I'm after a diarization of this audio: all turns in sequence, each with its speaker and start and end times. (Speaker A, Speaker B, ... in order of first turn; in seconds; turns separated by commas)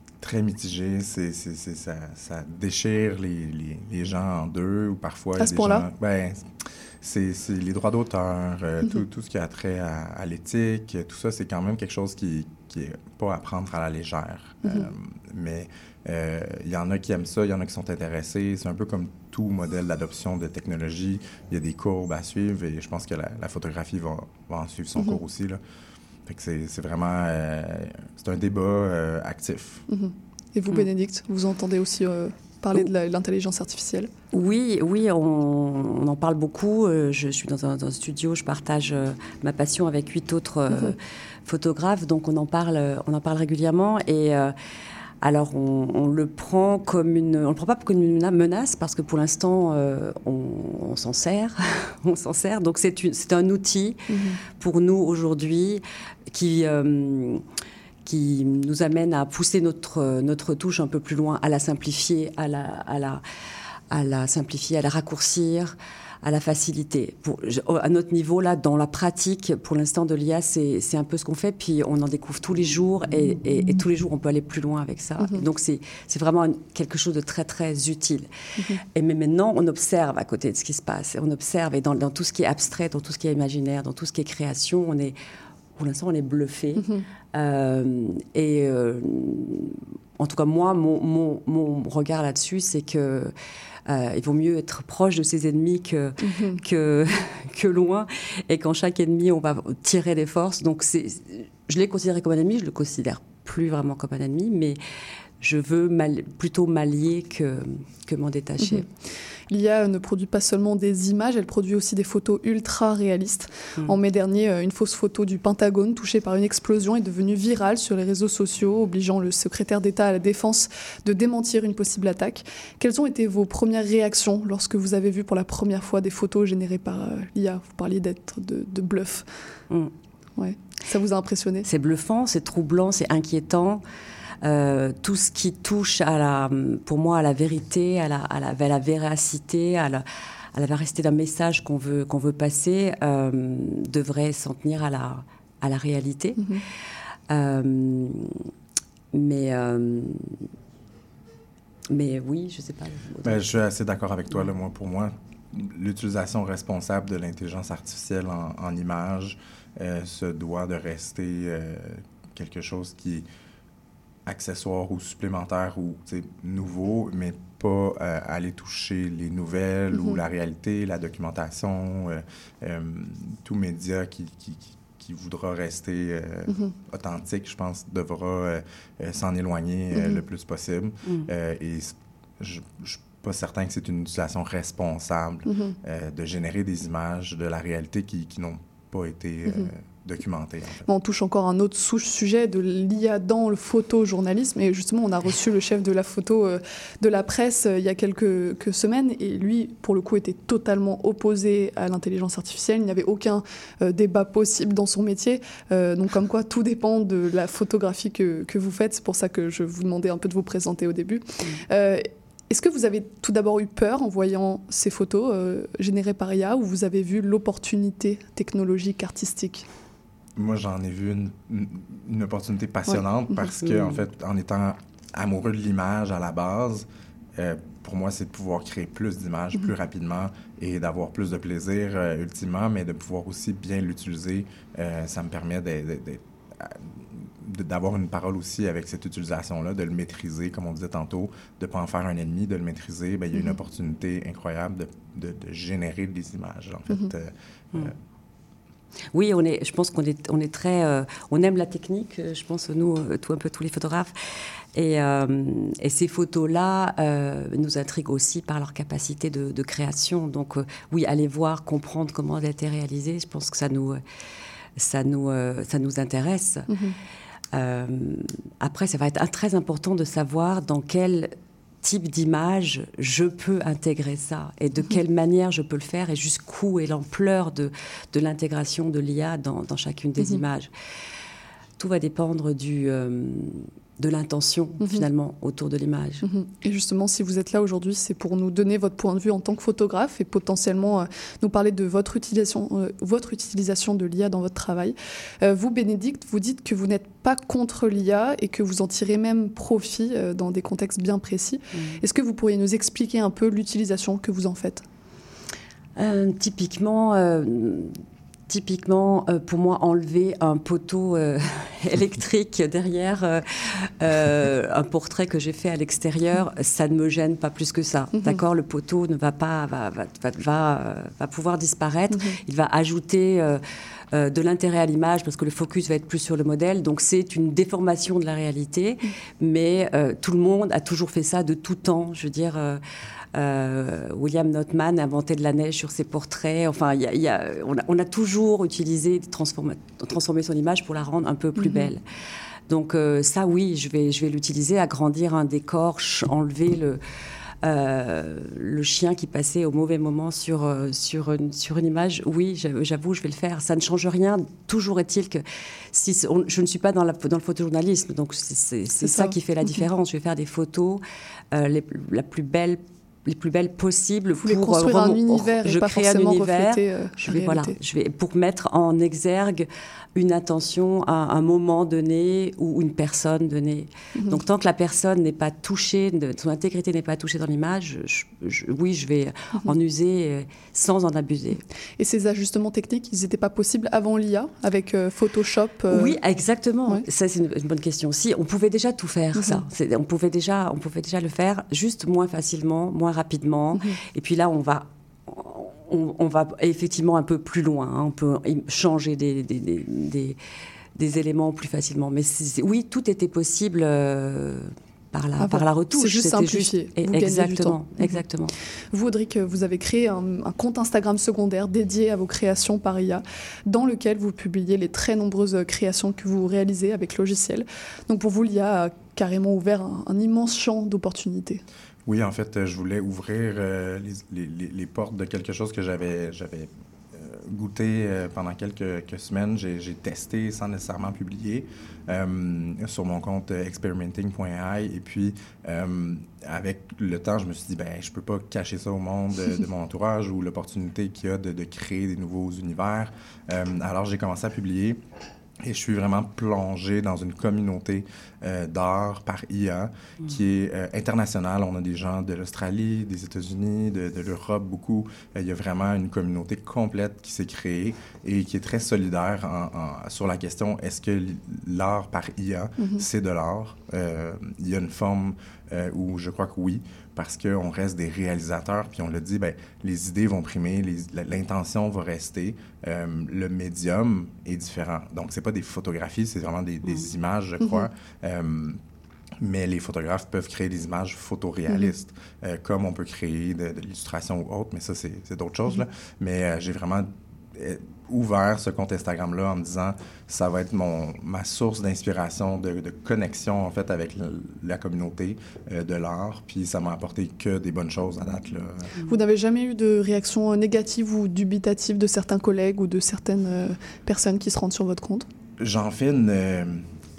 Speaker A: 0.2-6.5, Speaker B: 5.4-5.8, Speaker A: 7.0-25.6, Speaker B: 14.6-14.9, Speaker A: 26.3-29.8, Speaker B: 29.9-34.1, Speaker C: 34.3-44.5, Speaker C: 45.2-54.0, Speaker B: 54.1-54.4, Speaker C: 54.6-57.4, Speaker C: 58.0-63.2, Speaker C: 63.9-78.3, Speaker C: 78.9-85.2, Speaker C: 85.8-93.3, Speaker B: 86.8-87.1, Speaker C: 93.9-104.8, Speaker B: 96.2-96.6, Speaker C: 105.4-108.8, Speaker B: 108.6-108.9, Speaker B: 109.5-129.3, Speaker B: 130.4-131.7, Speaker C: 131.6-133.8, Speaker C: 134.4-146.4, Speaker B: 146.4-146.6, Speaker C: 147.3-148.4, Speaker C: 149.1-150.3, Speaker C: 151.9-153.4, Speaker A: 153.2-163.3, Speaker A: 164.3-190.9, Speaker B: 169.9-170.2, Speaker B: 176.5-176.7, Speaker B: 179.9-180.2, Speaker B: 185.5-185.8, Speaker B: 190.9-219.7, Speaker A: 220.4-226.9, Speaker B: 222.9-223.5, Speaker A: 227.4-247.9, Speaker C: 249.1-254.2, Speaker C: 254.8-264.0, Speaker C: 264.8-266.7, Speaker B: 266.7-267.0, Speaker C: 267.5-280.7, Speaker C: 281.8-286.2, Speaker B: 284.8-285.1, Speaker B: 286.2-304.8, Speaker C: 301.7-302.0, Speaker C: 306.0-308.0, Speaker C: 308.5-323.6, Speaker B: 318.1-318.4, Speaker B: 322.1-322.4, Speaker C: 324.1-332.8, Speaker C: 333.4-342.0, Speaker B: 341.6-341.9, Speaker C: 342.7-347.0, Speaker C: 347.6-381.6, Speaker B: 359.0-359.9, Speaker B: 364.4-367.8, Speaker B: 374.1-374.4, Speaker B: 382.0-386.2, Speaker C: 385.9-400.4, Speaker B: 389.4-389.6, Speaker C: 401.0-408.5, Speaker B: 405.4-408.2, Speaker B: 408.9-421.6, Speaker A: 422.1-445.0, Speaker A: 445.6-478.8, Speaker B: 462.8-463.1, Speaker B: 477.6-477.9, Speaker A: 479.4-498.9, Speaker B: 481.7-481.9, Speaker B: 499.1-505.3, Speaker A: 505.6-506.9